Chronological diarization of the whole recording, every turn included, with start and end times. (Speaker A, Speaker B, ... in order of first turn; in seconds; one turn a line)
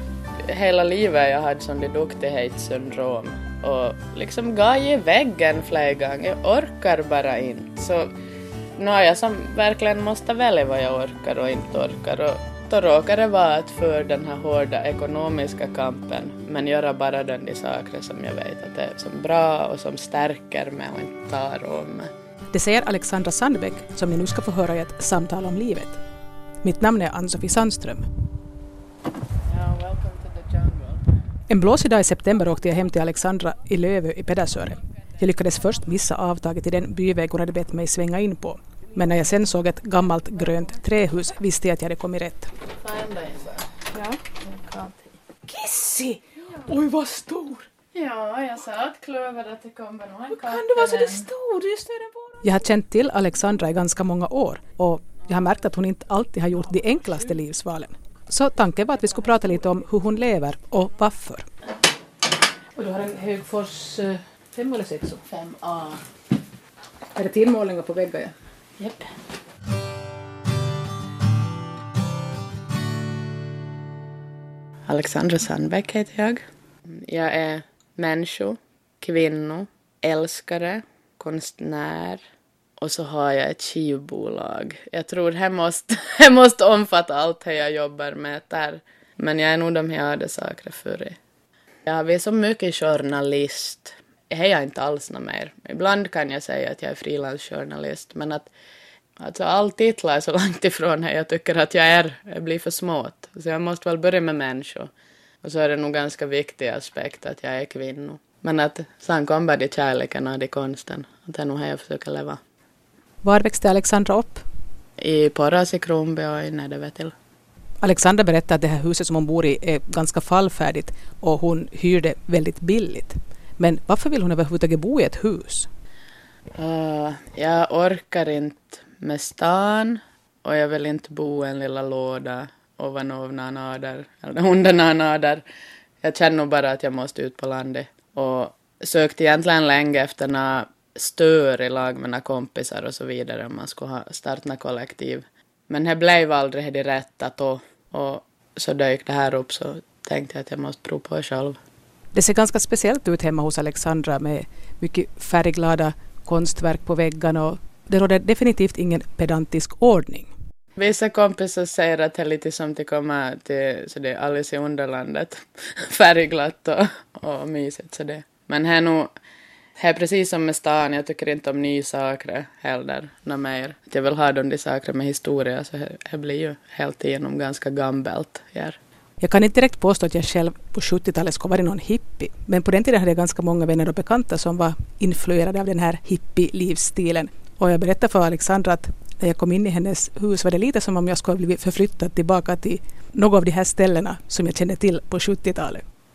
Speaker A: 0.5-8.1
Speaker A: 8.8-22.1
Speaker B: 22.5-26.0
Speaker B: 26.6-28.1
Speaker A: 29.4-31.1
Speaker B: 31.5-42.5
Speaker A: 42.8-43.7
Speaker B: 43.9-47.7
Speaker A: 47.9-51.2
Speaker B: 50.3-61.5
Speaker B: 62.8-65.2
Speaker A: 65.3-66.0
Speaker B: 67.1-68.3
Speaker A: 68.8-69.1
Speaker A: 74.9-82.2
Speaker A: 82.8-91.2
Speaker A: 91.8-98.5
Speaker A: 99.2-104.9
Speaker A: 105.4-112.4
Speaker B: 113.2-114.4
Speaker A: 115.0-117.1
Speaker B: 117.8-125.7
Speaker A: 126.6-135.4
Speaker A: 136.0-151.6
Speaker B: 152.1-160.3
Speaker A: 160.8-169.1
Speaker A: 169.8-178.8
Speaker B: 179.2-195.8